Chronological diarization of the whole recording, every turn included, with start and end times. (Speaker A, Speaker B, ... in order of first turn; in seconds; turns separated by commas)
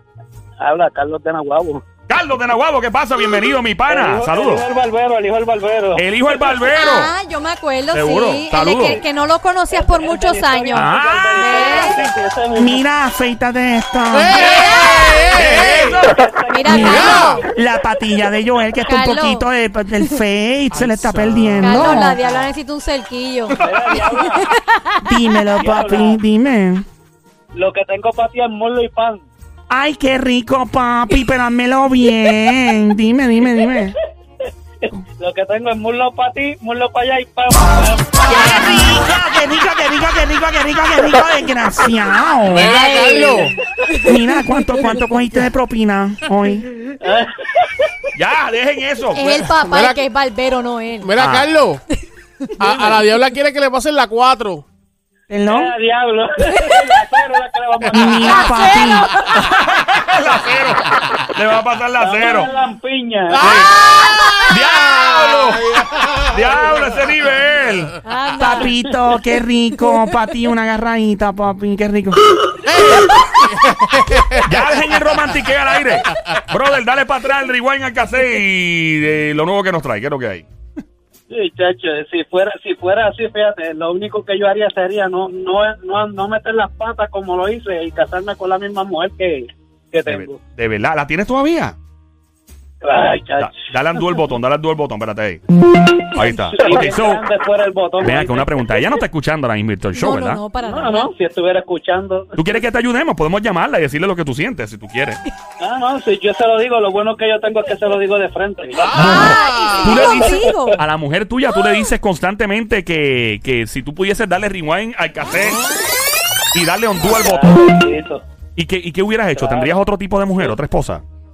Speaker A: 0.6-1.8, Speaker B: 2.1-4.6, Speaker A: 3.9-6.6, Speaker B: 6.0-7.1, Speaker C: 6.7-12.0, Speaker B: 7.9-9.0, Speaker A: 8.7-9.0, Speaker A: 9.7-12.8, Speaker B: 10.7-11.3, Speaker D: 12.5-14.5, Speaker E: 14.1-15.9, Speaker C: 14.5-15.0, Speaker B: 14.6-16.1, Speaker A: 15.3-17.4, Speaker C: 16.5-17.2, Speaker D: 16.6-22.2, Speaker E: 16.8-17.4, Speaker C: 18.8-20.2, Speaker E: 20.7-22.4, Speaker C: 21.6-24.9, Speaker A: 23.6-24.4, Speaker D: 25.0-26.8, Speaker A: 25.6-26.2, Speaker A: 27.5-29.2, Speaker D: 29.7-33.9, Speaker A: 35.2-39.0, Speaker D: 38.2-42.8, Speaker E: 42.5-43.5, Speaker C: 42.7-44.2, Speaker A: 42.9-43.5, Speaker D: 44.0-46.7, Speaker A: 47.0-47.7, Speaker B: 48.1-49.2, Speaker C: 49.1-51.1, Speaker E: 49.3-50.0, Speaker E: 51.0-51.8, Speaker B: 51.1-51.5, Speaker A: 52.6-53.0, Speaker E: 52.6-54.6, Speaker D: 55.3-55.7, Speaker A: 55.5-58.9, Speaker C: 56.5-56.9, Speaker D: 57.9-59.1, Speaker C: 58.2-59.5, Speaker B: 59.3-62.5, Speaker A: 62.0-63.6, Speaker E: 63.4-66.2, Speaker B: 64.5-65.7, Speaker B: 66.3-67.9, Speaker C: 68.0-68.7, Speaker D: 68.4-72.2, Speaker E: 72.7-74.5, Speaker B: 74.4-80.5, Speaker A: 81.3-90.4, Speaker B: 90.0-91.8, Speaker A: 92.8-93.5, Speaker B: 93.4-95.4, Speaker B: 96.1-97.2, Speaker A: 96.2-98.6, Speaker B: 98.0-100.4, Speaker C: 99.9-101.1, Speaker A: 100.6-102.4, Speaker B: 102.3-105.2, Speaker A: 105.6-109.0, Speaker E: 108.8-110.1, Speaker B: 108.9-115.6, Speaker C: 108.9-110.8, Speaker B: 116.5-117.5, Speaker A: 116.9-118.2, Speaker B: 118.5-121.0, Speaker A: 119.3-120.5